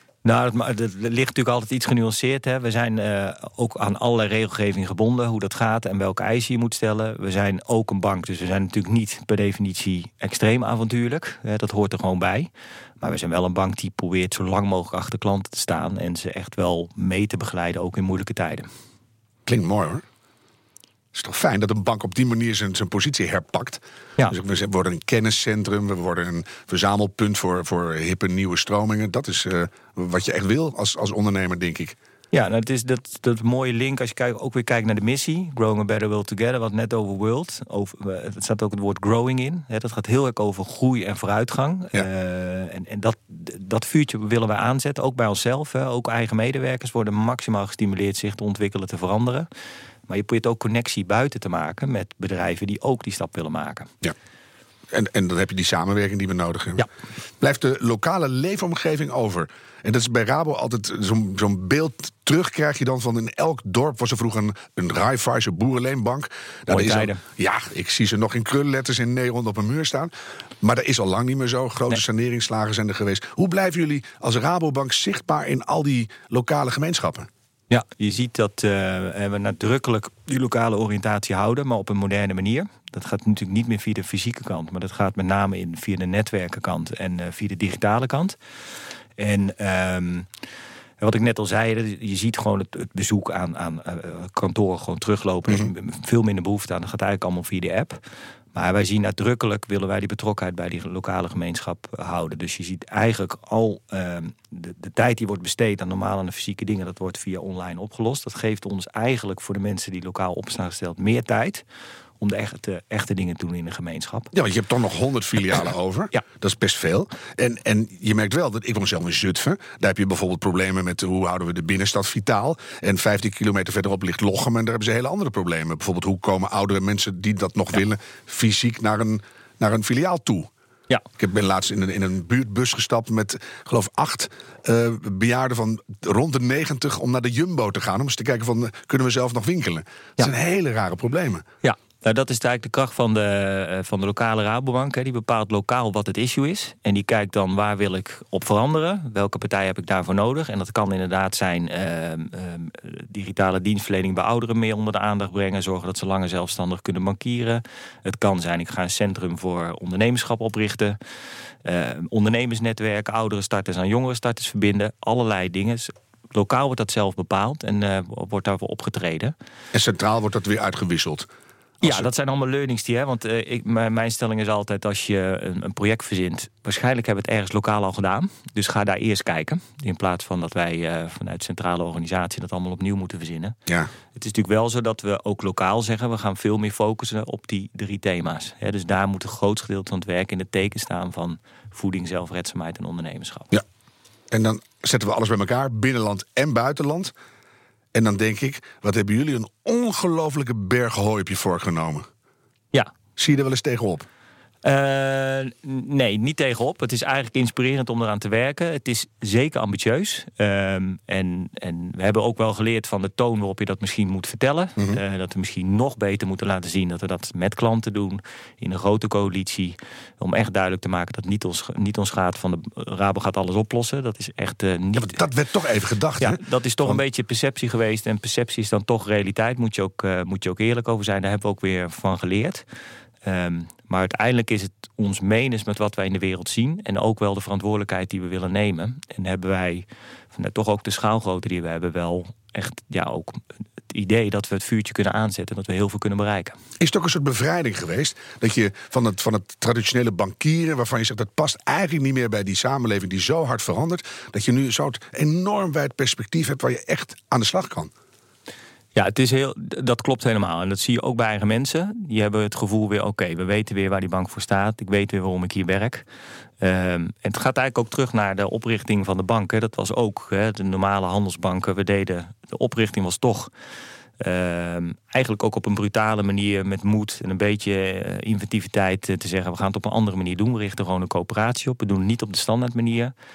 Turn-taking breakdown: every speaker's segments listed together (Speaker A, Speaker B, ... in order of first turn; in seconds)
Speaker A: 0.2-12.5, 13.0-18.7, 32.3-49.5, 50.1-53.9, 66.7-67.2, 77.7-88.4, 89.2-90.3, 91.0-98.0, 98.5-111.6, 112.2-114.3, 141.6-161.0, 161.6-169.3, 171.8-183.6, 184.1-193.5, 204.6-225.2, 226.2-232.6, 233.2-246.6, 258.9-266.0, 266.6-273.5, 274.2-283.1
Speaker B: 19.5-20.0, 21.1-32.0, 54.9-56.9, 57.4-77.3, 114.3-130.5, 131.2-141.4, 169.7-171.3, 171.8-172.1, 194.3-197.1, 197.9-202.1, 203.2-204.1, 225.0-227.0, 246.8-257.9